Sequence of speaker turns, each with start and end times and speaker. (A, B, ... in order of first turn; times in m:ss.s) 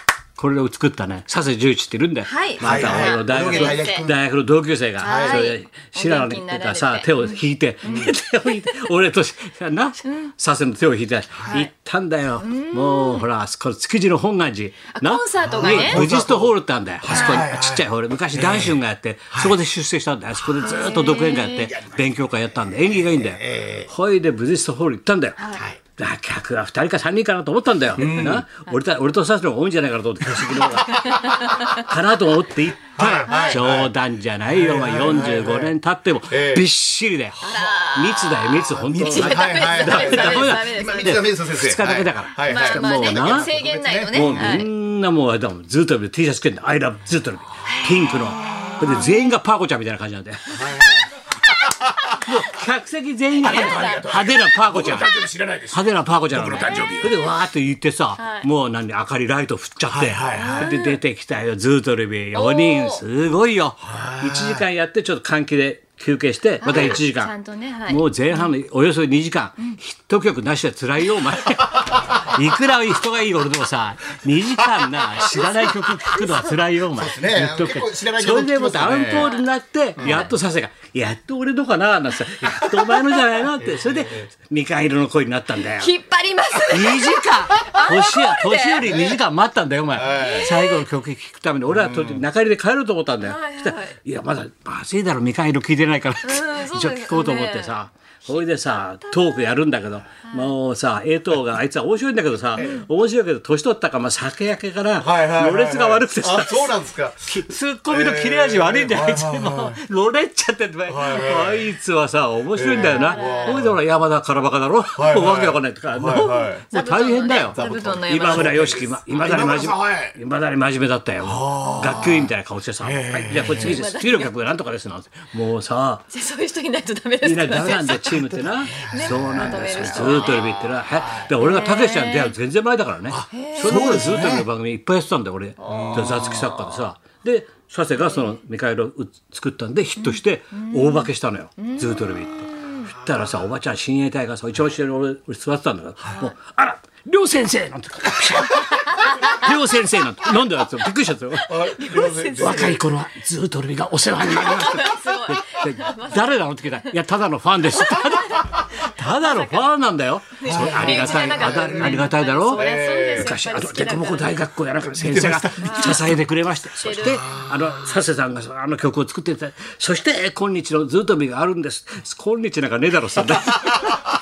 0:00.4-0:25.4 A
0:02.3-0:04.1 B
0:02.6-0:04.2 C
0:05.0-0:08.7 B
0:05.0-0:05.4 C
0:07.8-0:08.1 C
0:10.0-0:10.3 B
0:11.3-0:11.6 C
0:12.4-0:13.3 B
0:15.0-0:16.1 B
0:15.4-0:18.8 C
0:17.1-0:17.5 B
0:19.3-0:19.6 C
0:20.4-0:20.7 C
0:20.6-0:21.7 B
0:21.6-0:23.9 C
0:25.4-0:25.6 B
0:25.5-0:25.8 C
0:26.0-0:43.5 A
0:28.0-0:28.4 C
0:30.3-0:31.4 C
0:30.9-0:31.8 B
0:33.0-0:33.9 C
0:33.3-0:33.6 B
0:34.5-0:35.7 C
0:36.3-0:36.6 C
0:37.3-0:37.9 C
0:37.4-0:41.3 B
0:38.7-0:44.6 C
0:42.4-0:44.7 B
0:44.1-0:50.8 A
0:48.1-0:49.3 B
0:48.5-0:48.8 C
0:50.5-0:52.4 C
0:51.6-0:52.2 B
0:52.2-0:55.1 A
0:53.4-0:54.2 B
0:53.4-0:57.2 C
0:55.7-1:07.3 A
0:56.5-0:57.3 B
0:58.2-0:58.5 B
0:59.9-1:00.7 C
1:00.3-1:01.0 B
1:02.3-1:03.0 B
1:03.8-1:04.7 C
1:06.6-1:08.5 B
1:06.6-1:07.0 C
1:07.9-1:25.9 A
1:16.9-1:19.3 C
1:19.0-1:19.4 B
1:20.0-1:20.2 C
1:20.0-1:20.3 B
1:22.5-1:24.3 C
1:25.8-1:29.0 B
1:26.7-2:06.0 A
1:28.8-1:29.2 C
1:29.9-1:30.5 C
1:30.1-1:30.8 B
1:31.7-1:32.2 C
1:33.2-1:34.0 B
1:36.2-1:39.6 B
1:40.2-1:40.5 B
1:42.6-1:42.9 B
1:42.6-1:42.8 C
1:45.0-1:49.8 C
1:50.9-1:51.7 C
1:52.5-1:53.8 C
1:52.7-1:53.7 B
1:55.0-1:56.6 C
1:56.2-1:58.7 B
1:57.5-2:00.2 C
2:01.2-2:02.3 C
2:01.6-2:02.0 B
2:02.8-2:03.8 C
2:03.4-2:04.3 B
2:06.1-2:10.6 B
2:07.2-2:31.6 A
2:07.8-2:11.3 C
2:11.4-2:12.4 B
2:13.1-2:14.5 C
2:13.3-2:14.2 B
2:15.6-2:16.9 B
2:15.7-2:16.5 C
2:18.0-2:18.3 B
2:20.0-2:22.9 B
2:22.9-2:23.5 C
2:29.0-2:29.5 B
2:31.4-2:32.8 B
2:31.5-2:32.8 C
2:32.4-2:42.6 A
2:34.4-2:36.9 B
2:37.8-2:39.7 B
2:40.4-2:44.4 B
2:40.5-2:43.3 C
2:43.2-2:53.9 A
2:44.8-2:46.1 C
2:45.6-2:46.1 B
2:46.7-2:47.3 B
2:47.0-2:48.0 C
2:53.4-2:54.0 C